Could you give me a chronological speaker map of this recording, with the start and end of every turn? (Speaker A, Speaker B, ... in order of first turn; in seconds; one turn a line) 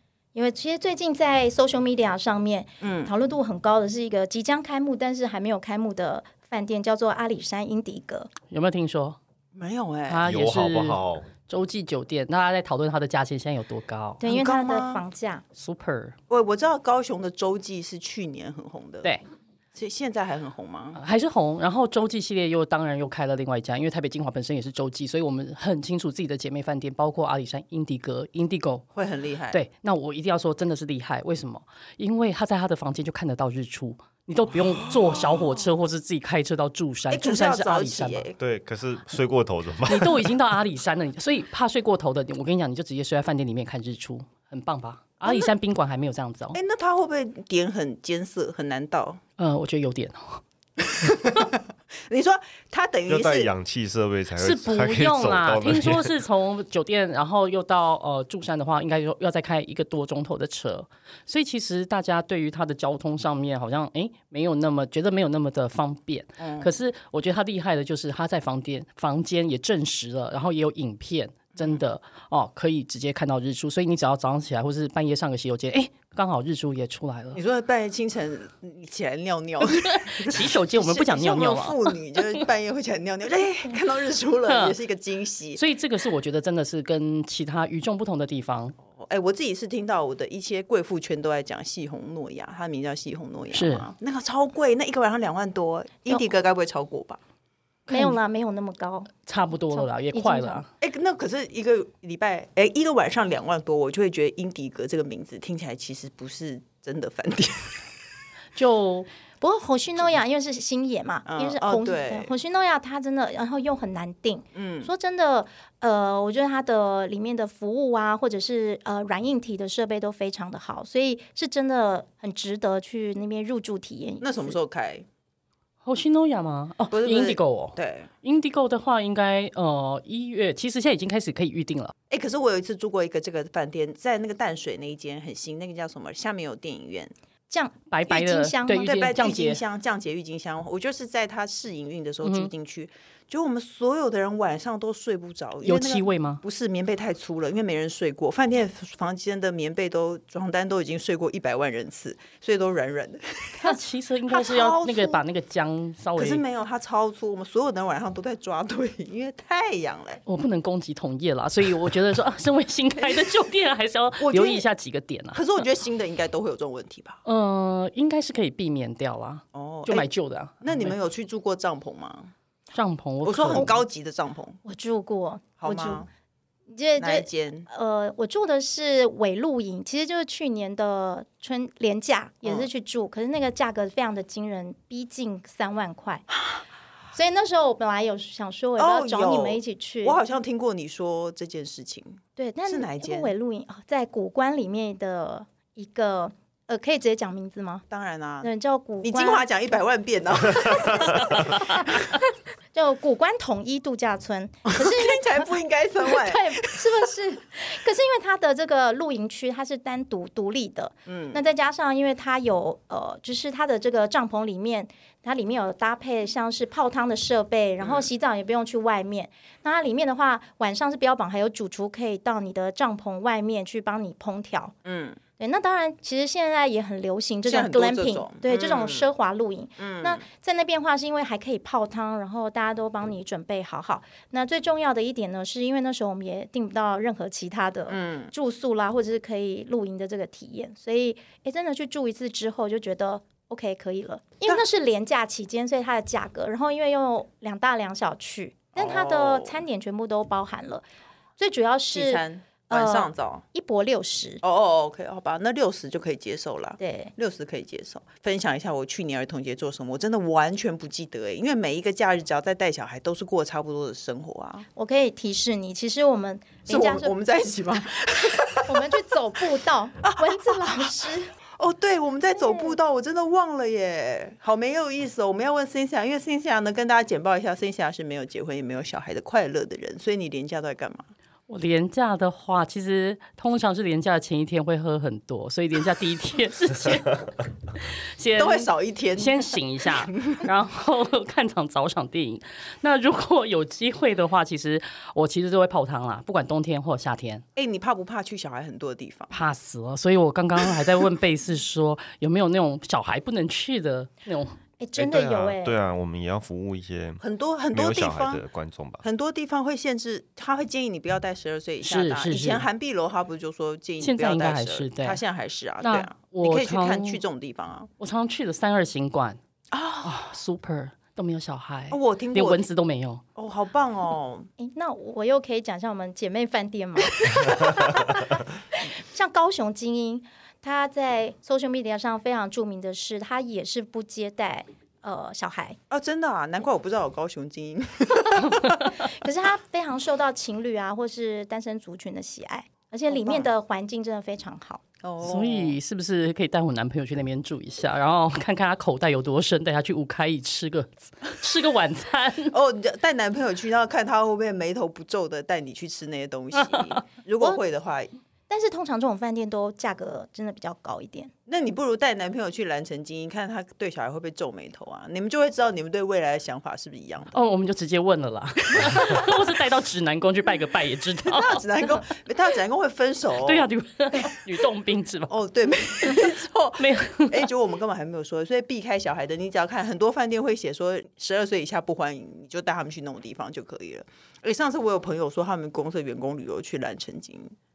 Speaker A: 0.3-8.3
Speaker B: 2.8-3.1
Speaker C: 8.5-9.2
Speaker B: 9.6-10.2
Speaker C: 10.1-14.2
Speaker D: 10.2-11.3
Speaker B: 14.2-15.0
Speaker A: 14.2-15.4
Speaker C: 15.6-16.2
Speaker B: 16.3-19.1
Speaker B: 19.7-21.0
Speaker C: 21.0-28.9
Speaker B: 28.9-29.6
Speaker C: 29.5-38.3
Speaker B: 34.6-35.6
Speaker B: 37.1-38.4
Speaker D: 38.4-40.3
Speaker C: 39.9-46.6
Speaker B: 46.5-49.2
Speaker C: 49.4-50.4
Speaker B: 50.8-53.5
Speaker D: 53.1-56.1
Speaker C: 54.4-77.4
Speaker B: 66.4-66.7
Speaker B: 71.6-71.8
Speaker B: 77.3-85.6
Speaker C: 79.7-82.4
Speaker C: 84.5-84.8
Speaker C: 85.6-88.8
Speaker B: 88.9-97.2
Speaker C: 93.5-93.9
Speaker C: 97.9-98.2
Speaker A: 97.9-99.1
Speaker C: 99.3-100.7
Speaker A: 99.7-100.6
Speaker B: 100.8-107.8
Speaker C: 108.6-109.1
Speaker A: 109.4-124.6
Speaker B: 111.3-112.3
Speaker B: 114.5-114.9
Speaker B: 124.2-125.1
Speaker C: 125.8-131.9
Speaker B: 126.9-128.1
Speaker B: 132.1-137.1
Speaker A: 137.5-138.9
Speaker C: 137.9-139.6
Speaker B: 138.7-153.8
Speaker C: 142.2-142.5
Speaker C: 145.6-146.4
Speaker C: 153.6-156.4
Speaker B: 154.3-155.2
Speaker B: 156.2-160.2
Speaker C: 160.3-165.5
Speaker B: 163.0-163.4
Speaker B: 164.2-164.7
Speaker B: 165.3-167.2
Speaker C: 167.2-170.9
Speaker B: 169.5-170.1
Speaker B: 170.6-172.3
Speaker C: 172.7-173.7
Speaker B: 173.2-174.6
Speaker A: 174.7-176.1
Speaker B: 175.6-176.1
Speaker A: 176.7-186.3
Speaker B: 177.0-177.7
Speaker A: 187.1-190.2
Speaker B: 188.8-193.3
Speaker A: 192.4-197.8
Speaker B: 197.9-198.5
Speaker A: 198.4-199.5
Speaker B: 199.0-202.1
Speaker A: 202.7-205.4
Speaker B: 204.7-206.9
Speaker A: 206.0-224.8
Speaker B: 211.1-211.4
Speaker B: 217.8-218.1
Speaker B: 224.8-225.2
Speaker A: 225.4-250.8
Speaker B: 227.5-229.1
Speaker B: 229.8-230.2
Speaker B: 237.9-238.3
Speaker B: 248.8-249.6
Speaker A: 251.4-254.4
Speaker B: 251.9-253.4
Speaker B: 254.4-264.7
Speaker A: 256.8-257.1
Speaker A: 264.8-267.1
Speaker B: 266.7-269.0
Speaker A: 268.2-271.3
Speaker B: 270.0-281.1
Speaker A: 272.4-272.8
Speaker C: 281.5-297.4
Speaker B: 288.4-290.4
Speaker B: 297.6-299.3
Speaker C: 299.3-304.6
Speaker A: 304.8-305.7
Speaker D: 305.0-309.0
Speaker B: 307.2-308.4
Speaker B: 309.0-317.9
Speaker C: 311.9-312.7
Speaker C: 314.0-315.2
Speaker C: 315.8-317.2
Speaker C: 318.0-319.4
Speaker B: 319.7-320.2
Speaker C: 320.0-323.2
Speaker B: 321.9-322.6
Speaker B: 323.4-324.5
Speaker A: 324.6-335.8
Speaker B: 327.3-327.7
Speaker B: 335.9-338.9
Speaker A: 339.0-344.8
Speaker B: 343.1-343.5
Speaker B: 345.0-345.8
Speaker C: 345.2-352.5
Speaker B: 352.5-358.1
Speaker A: 358.5-361.3
Speaker B: 361.5-367.4
Speaker C: 367.3-371.6
Speaker B: 371.2-374.2
Speaker C: 373.4-375.3
Speaker B: 375.3-387.6
Speaker C: 376.0-377.5